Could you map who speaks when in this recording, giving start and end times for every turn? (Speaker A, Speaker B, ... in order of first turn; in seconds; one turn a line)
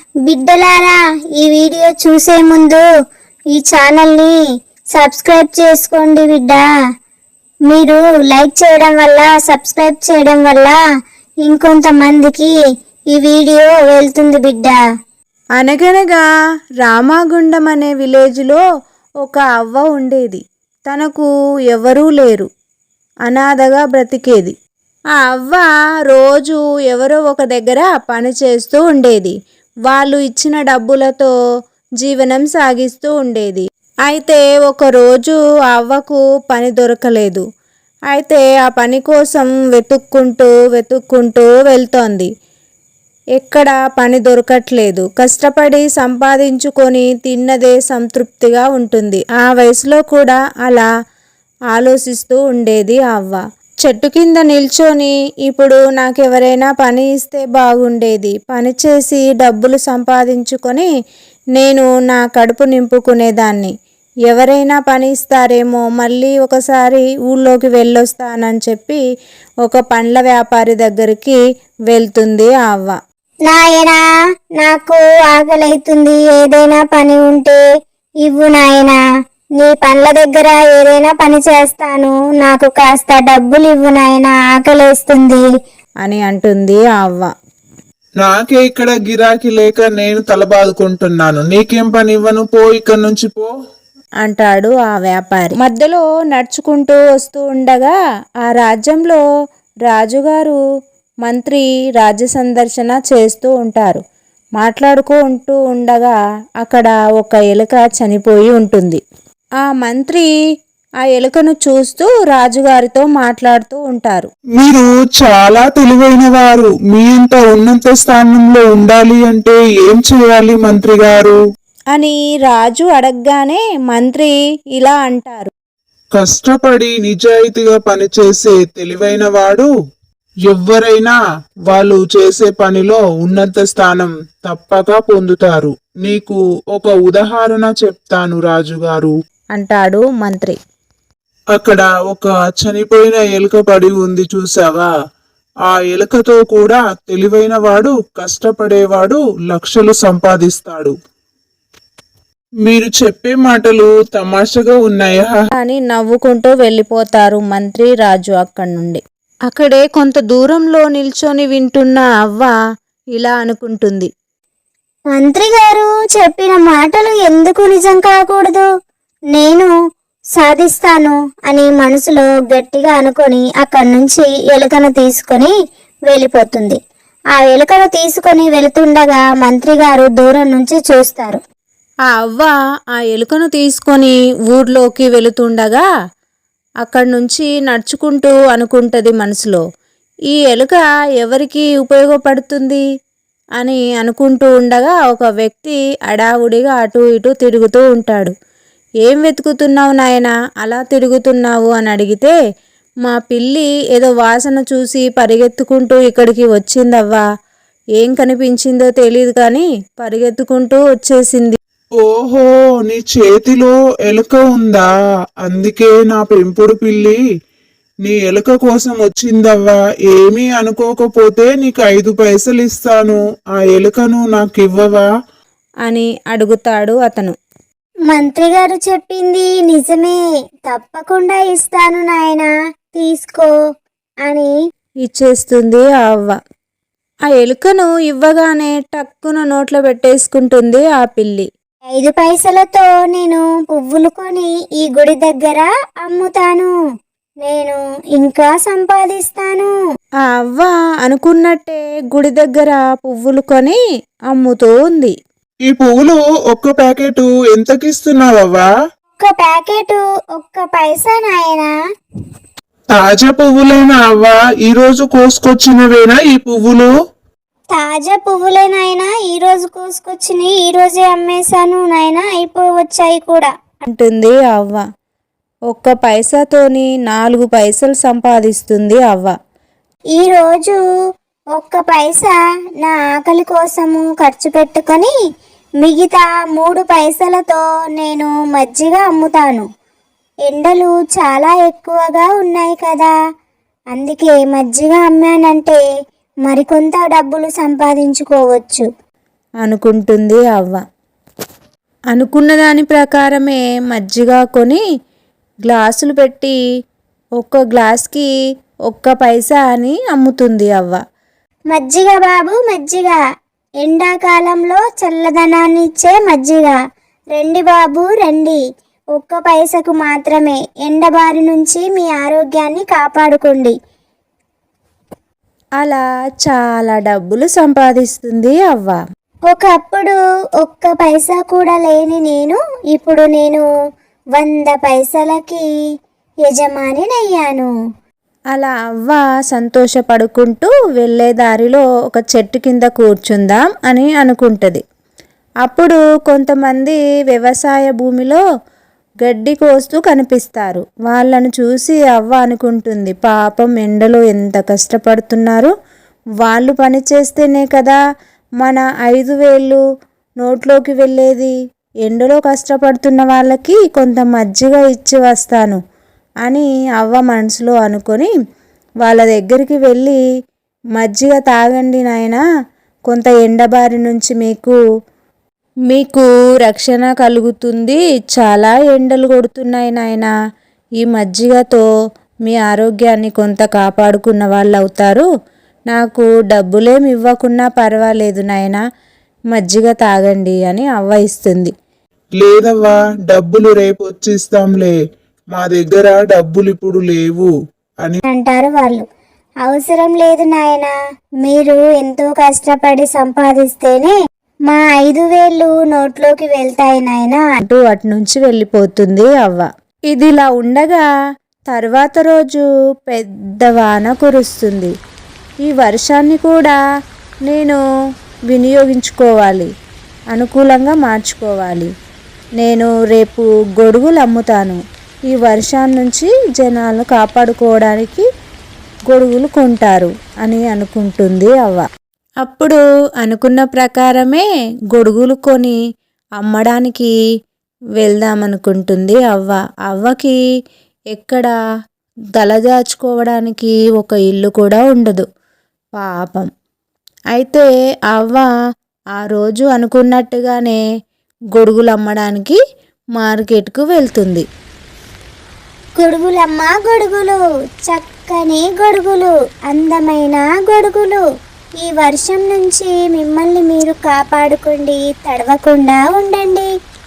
Speaker A: 0.3-2.8
Speaker A: 3.5-4.3
Speaker A: 5.0-6.7
Speaker A: 7.7-10.8
Speaker A: 11.4-12.5
Speaker A: 13.1-14.8
Speaker B: 15.6-16.2
Speaker B: 16.8-18.6
Speaker B: 19.2-22.5
Speaker B: 23.3-24.5
Speaker B: 25.2-29.4
Speaker B: 29.9-31.3
Speaker B: 32.0-37.4
Speaker B: 38.1-42.3
Speaker B: 43.4-50.9
Speaker B: 51.7-60.9
Speaker B: 61.6-63.7
Speaker B: 64.3-69.0
Speaker B: 69.6-71.4
Speaker B: 71.9-73.0
Speaker A: 73.5-74.0
Speaker A: 74.6-77.6
Speaker A: 78.2-79.0
Speaker A: 79.6-85.4
Speaker B: 86.0-87.3
Speaker C: 88.2-93.5
Speaker B: 94.2-99.2
Speaker B: 99.9-100.6
Speaker B: 101.2-104.0
Speaker B: 104.6-109.0
Speaker B: 109.6-110.3
Speaker B: 111.0-114.3
Speaker C: 114.6-121.4
Speaker B: 121.9-125.5
Speaker C: 126.2-129.7
Speaker C: 130.5-131.2
Speaker C: 131.7-139.1
Speaker B: 139.6-140.6
Speaker C: 141.5-144.9
Speaker C: 145.7-150.9
Speaker C: 152.7-155.4
Speaker B: 155.6-162.5
Speaker B: 163.2-164.1
Speaker A: 165.1-168.7
Speaker A: 169.3-169.7
Speaker A: 170.4-175.5
Speaker A: 176.1-176.8
Speaker A: 177.3-181.4
Speaker B: 182.1-185.8
Speaker B: 186.8-189.6
Speaker B: 190.3-192.8
Speaker B: 193.6-198.3
Speaker B: 199.0-202.3
Speaker B: 203.1-207.2
Speaker B: 208.0-211.6
Speaker C: 212.0-214.9
Speaker C: 215.4-217.2
Speaker C: 218.0-225.1
Speaker B: 225.9-227.3
Speaker A: 228.1-233.5
Speaker B: 235.0-236.4
Speaker B: 237.3-241.5
Speaker A: 241.9-246.7
Speaker A: 247.4-249.7
Speaker B: 250.3-253.8
Speaker B: 254.3-255.1
Speaker C: 255.7-258.7
Speaker A: 259.2-261.7
Speaker C: 262.9-266.9
Speaker A: 267.7-273.5
Speaker B: 273.8-274.8
Speaker B: 275.7-279.3
Speaker A: 280.2-280.8
Speaker A: 281.6-285.1
Speaker A: 285.8-289.7
Speaker A: 290.5-293.1
Speaker A: 293.9-295.8
Speaker A: 296.5-298.9
Speaker B: 299.6-300.8
Speaker B: 302.1-304.8
Speaker B: 305.7-306.6
Speaker B: 307.4-308.3
Speaker B: 308.9-311.0
Speaker A: 311.7-313.2
Speaker A: 313.8-316.8
Speaker A: 317.3-318.6
Speaker A: 319.2-323.7
Speaker B: 325.8-329.0
Speaker A: 329.5-333.6
Speaker A: 334.4-335.6
Speaker A: 336.5-337.7
Speaker B: 338.5-344.8
Speaker B: 345.6-348.4
Speaker B: 349.2-355.7
Speaker B: 356.4-358.0
Speaker B: 358.6-359.8
Speaker B: 360.4-361.5
Speaker B: 362.1-365.8
Speaker B: 366.4-368.3
Speaker B: 369.0-370.2
Speaker B: 371.0-372.4
Speaker B: 373.1-374.8
Speaker B: 375.9-380.3
Speaker B: 381.0-381.8
Speaker B: 382.5-385.3
Speaker B: 385.9-388.8
Speaker B: 389.5-391.7
Speaker C: 392.4-395.0
Speaker C: 395.6-397.5
Speaker A: 398.3-399.1
Speaker A: 399.6-400.9
Speaker A: 401.4-404.1
Speaker A: 404.7-407.5
Speaker B: 407.6-411.1
Speaker B: 411.7-414.9
Speaker B: 415.6-416.8
Speaker B: 417.5-417.8
Speaker B: 418.5-419.7
Speaker B: 420.3-421.9
Speaker B: 422.6-424.8
Speaker B: 425.3-428.2
Speaker B: 429.1-431.9
Speaker B: 432.4-435.8
Speaker B: 436.4-437.1
Speaker B: 438.0-440.4
Speaker B: 441.1-441.5
Speaker B: 442.4-445.2
Speaker B: 446.0-446.5
Speaker B: 447.3-448.5
Speaker B: 449.2-450.8
Speaker B: 451.5-452.6
Speaker B: 453.2-454.4
Speaker A: 456.0-461.2
Speaker A: 461.8-466.7